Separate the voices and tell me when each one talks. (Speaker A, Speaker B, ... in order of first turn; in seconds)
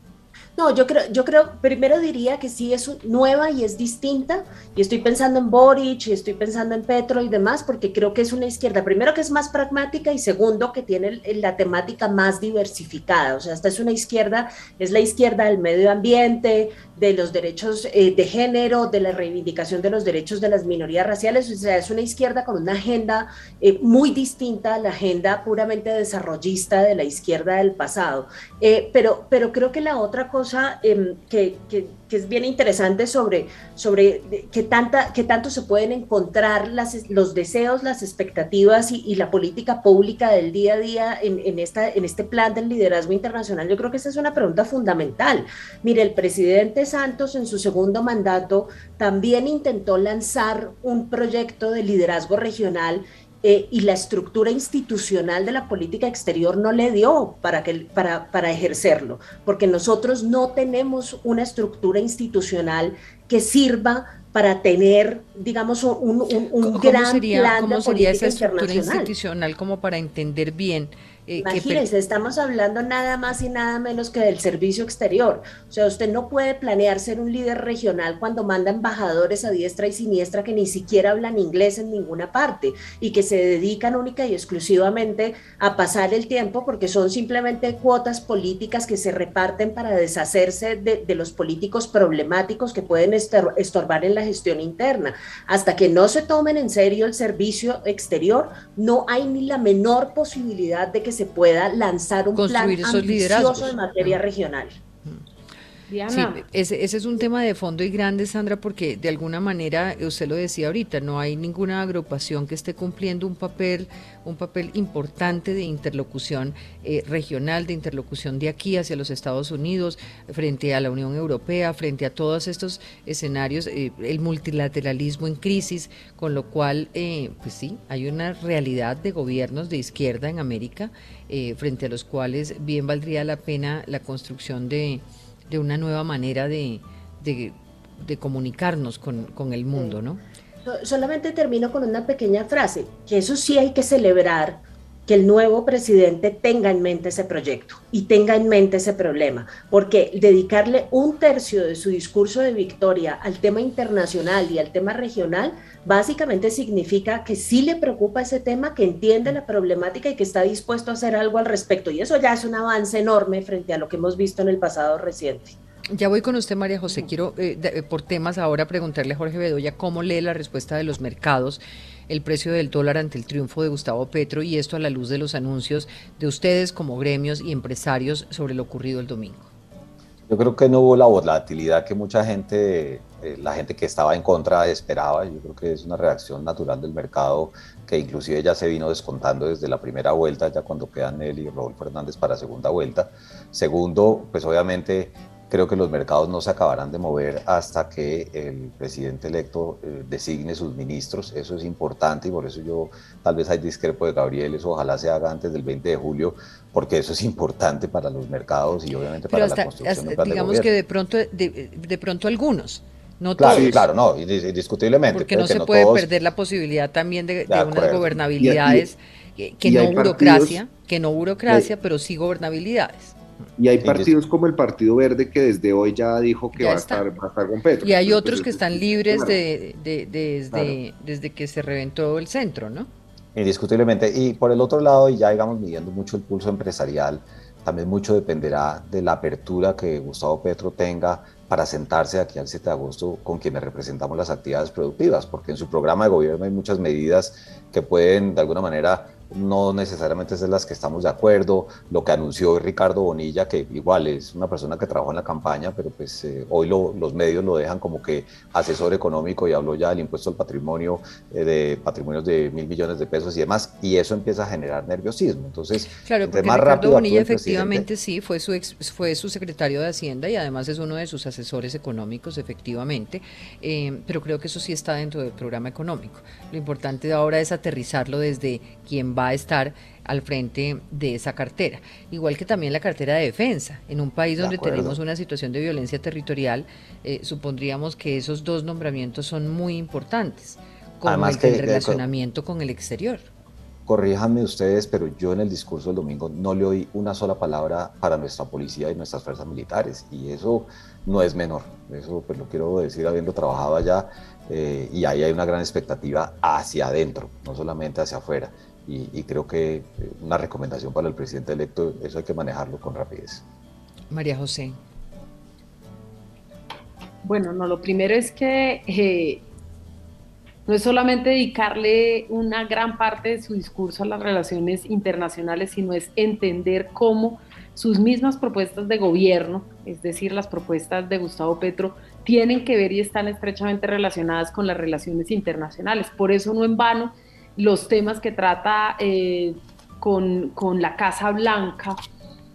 Speaker A: 0.6-69.1, 71.4-104.8, 140.7-165.6
Speaker B: 66.6-71.9, 102.3-104.2, 106.1-140.2, 165.9-179.5, 209.3-213.9, 215.1-223.2, 226.5-227.1, 227.8-232.9, 266.1-293.3, 314.1-314.8
Speaker C: 105.9-106.4, 317.2-319.4, 320.7-342.0
Speaker D: 180.3-210.7, 213.4-216.1, 217.5-218.2, 223.8-224.1, 233.3-267.9, 284.4-285.0, 291.1-292.0, 293.9-313.4
Speaker E: 213.5-213.8, 218.4-218.9, 219.6-220.6, 223.6-229.4